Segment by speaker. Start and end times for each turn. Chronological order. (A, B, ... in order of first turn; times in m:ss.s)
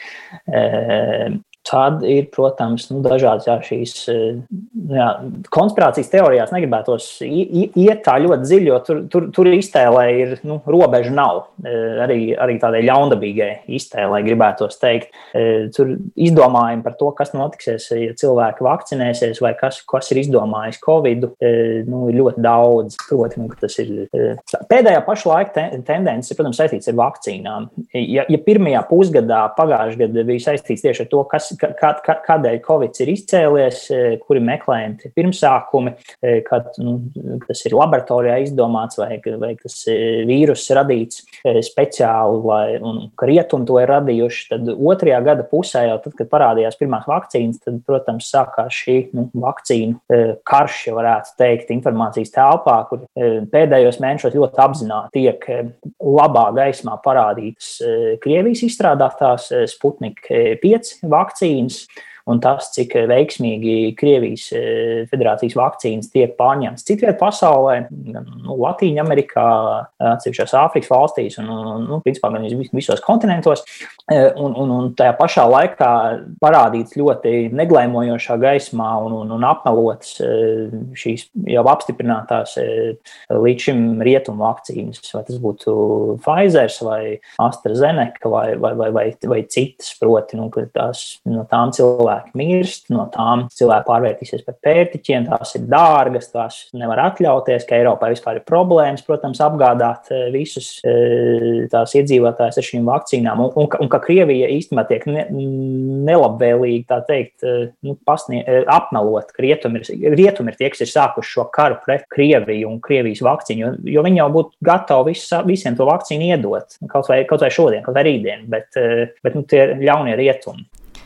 0:00.5-2:00.6 A